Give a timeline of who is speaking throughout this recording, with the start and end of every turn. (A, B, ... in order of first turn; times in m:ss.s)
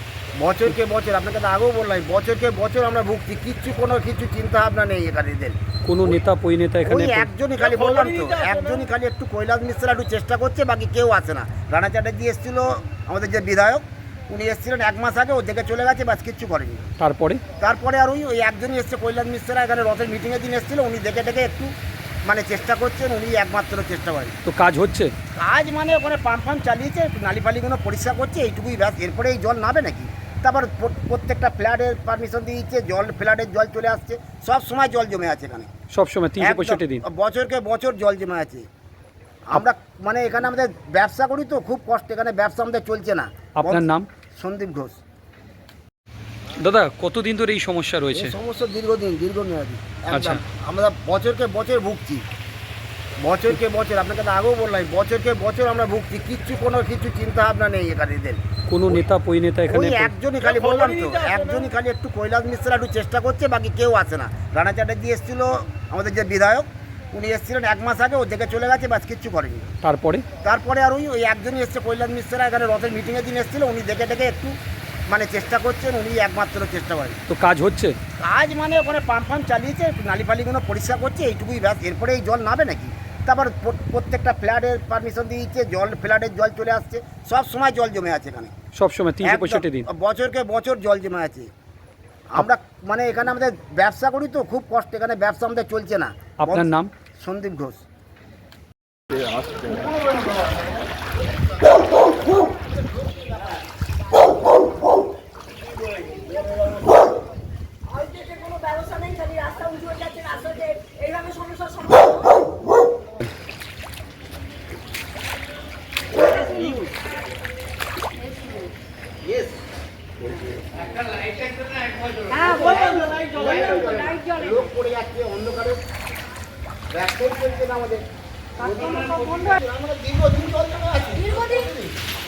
0:00.4-0:05.6 A
0:05.8-0:07.3 B
0:06.8-0:16.9 A
0:17.0-0:17.4 B
0:17.6-0:21.7 A
0:22.2-0:24.3 A
0:24.4-0:25.1 B
0:25.3-0:35.7 A
0:35.9-0:37.0 B
0:36.4-0:38.6 A
0:39.5-0:45.0 A
0:43.6-0:44.1 B
0:46.6-0:48.3 B
0:48.1-0:52.2 A
0:50.1-0:50.4 B
0:53.2-0:58.4 A
0:58.7-1:00.1 B
0:59.7-1:09.7 A
1:09.8-1:10.2 B
1:10.4-1:14.5 A
1:15.1-1:17.2 A
1:17.3-1:17.9 B
1:18.2-1:28.5 A
1:28.8-1:29.9 B
1:29.2-1:31.5 A
1:32.3-1:37.8 A
1:36.4-1:36.9 B
1:47.9-1:52.4 C
1:59.2-1:59.6 A
2:01.1-2:04.6 C
2:02.4-2:05.8 A
2:06.9-2:08.0 A
2:08.6-2:11.9 A
2:08.6-2:09.6 C
2:11.2-2:11.7 C